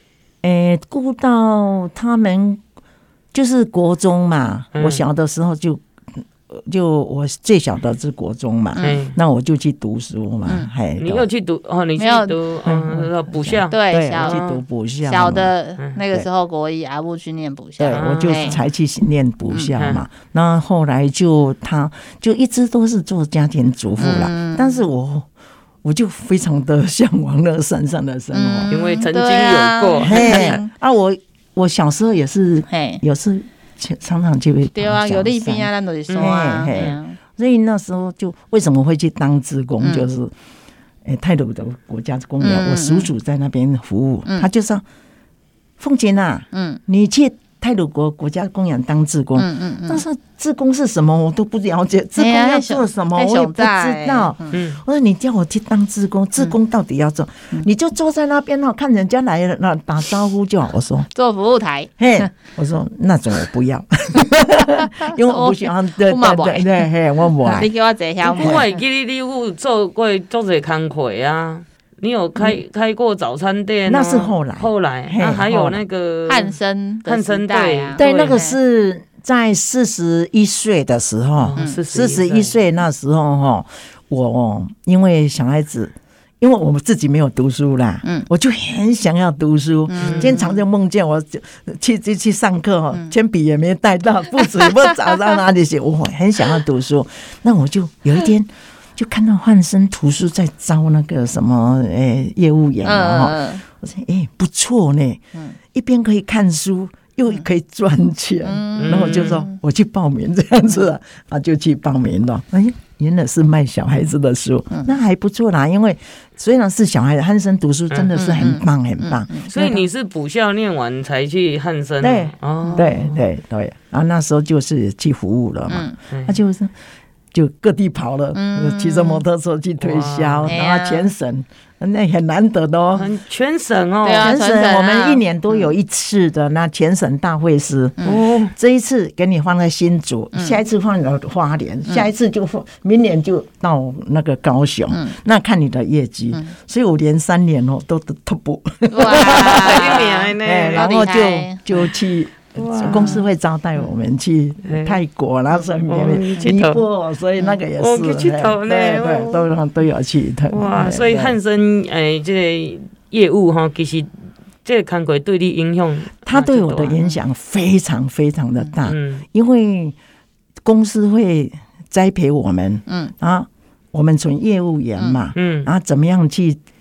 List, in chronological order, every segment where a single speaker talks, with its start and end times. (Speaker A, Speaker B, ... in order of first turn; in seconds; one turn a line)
Speaker A: 0.4-2.6
Speaker A: 3.3-5.8
Speaker B: 4.7-5.0
Speaker A: 6.5-11.3
Speaker B: 8.8-9.2
Speaker C: 10.4-10.7
Speaker B: 11.0-14.6
Speaker C: 12.0-12.4
Speaker A: 12.7-15.5
Speaker C: 13.7-14.4
Speaker C: 15.0-18.6
Speaker A: 17.8-25.3
Speaker B: 17.9-18.6
Speaker C: 19.5-19.8
Speaker B: 19.8-20.0
Speaker C: 24.0-24.9
Speaker A: 25.8-28.7
Speaker C: 28.3-30.7
Speaker B: 28.7-30.6
Speaker A: 30.0-40.3
Speaker C: 32.7-33.0
Speaker C: 34.8-37.2
Speaker B: 36.1-36.4
Speaker C: 39.8-40.1
Speaker A: 41.0-44.8
Speaker C: 42.4-43.1
Speaker A: 45.8-61.1
Speaker C: 46.5-46.8
Speaker C: 49.4-50.0
Speaker C: 52.2-54.6
Speaker B: 54.5-54.8
Speaker C: 61.1-62.3
Speaker A: 62.0-67.7
Speaker C: 64.2-66.8
Speaker C: 67.5-68.7
Speaker A: 68.2-68.7
Speaker B: 68.2-78.4
Speaker A: 73.9-75.8
Speaker C: 76.3-78.6
Speaker A: 78.0-119.8
Speaker B: 81.4-82.6
Speaker C: 81.6-81.8
Speaker C: 88.0-88.3
Speaker C: 89.9-90.6
Speaker B: 90.0-90.4
Speaker C: 102.8-103.6
Speaker C: 108.4-109.6
Speaker B: 108.8-109.4
Speaker C: 118.1-119.5
Speaker B: 119.5-122.9
Speaker A: 122.0-126.7
Speaker C: 122.6-123.1
Speaker C: 125.7-126.0
Speaker B: 126.1-126.4
Speaker A: 127.3-133.1
Speaker C: 128.3-129.2
Speaker B: 129.8-130.6
Speaker C: 130.5-131.1
Speaker B: 133.0-134.4
Speaker C: 134.0-135.7
Speaker A: 134.2-161.4
Speaker B: 138.0-138.5
Speaker C: 140.3-140.6
Speaker C: 144.9-145.2
Speaker C: 148.9-151.6
Speaker B: 149.1-150.9
Speaker B: 152.6-153.3
Speaker B: 154.7-155.0
Speaker B: 155.9-156.8
Speaker B: 157.8-159.5
Speaker B: 160.5-167.0
Speaker A: 166.2-169.9
Speaker B: 168.8-169.2
Speaker A: 170.7-176.6
Speaker C: 172.9-173.1
Speaker B: 175.3-175.7